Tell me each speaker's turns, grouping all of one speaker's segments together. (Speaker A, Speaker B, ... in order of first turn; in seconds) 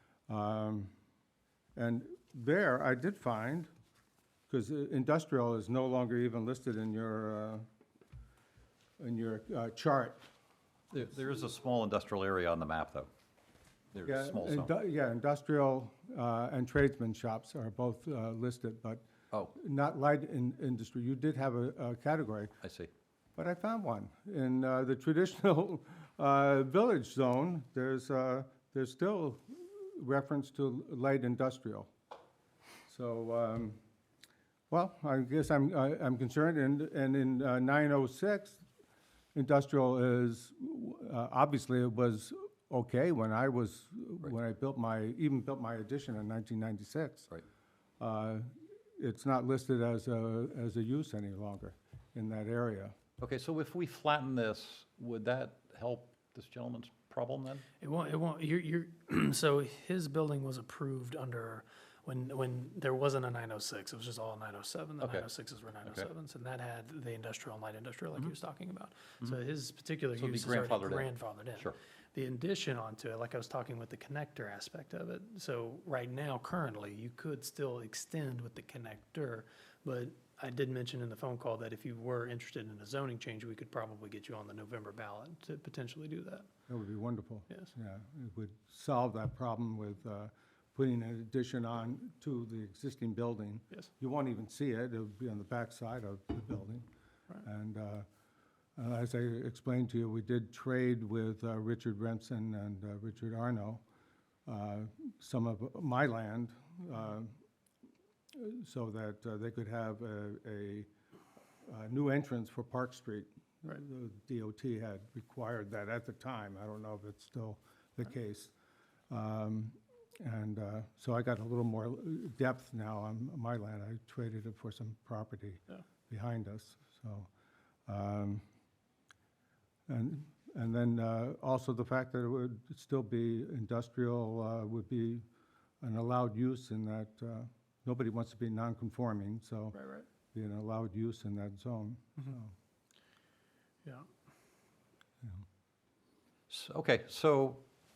Speaker A: 0.3-0.9, 1.8-3.7, 4.5-7.7, 9.0-10.2, 14.1-22.6, 23.4-31.9, 32.9-33.8, 34.7-38.6, 39.4-47.3, 48.0-52.9, 86.7-96.9, 97.4-98.1, 98.8-103.8, 104.5-107.4, 108.3-110.9, 111.7-118.5, 119.1-127.3, 127.9-128.4, 129.9-135.2, 135.8-139.8, 140.3-142.5
Speaker B: 10.9-13.1, 13.9-14.7, 22.6-22.9, 53.2-57.6, 65.0-65.3, 70.2-71.8, 146.5-147.6
Speaker C: 57.8-86.5, 139.7-140.1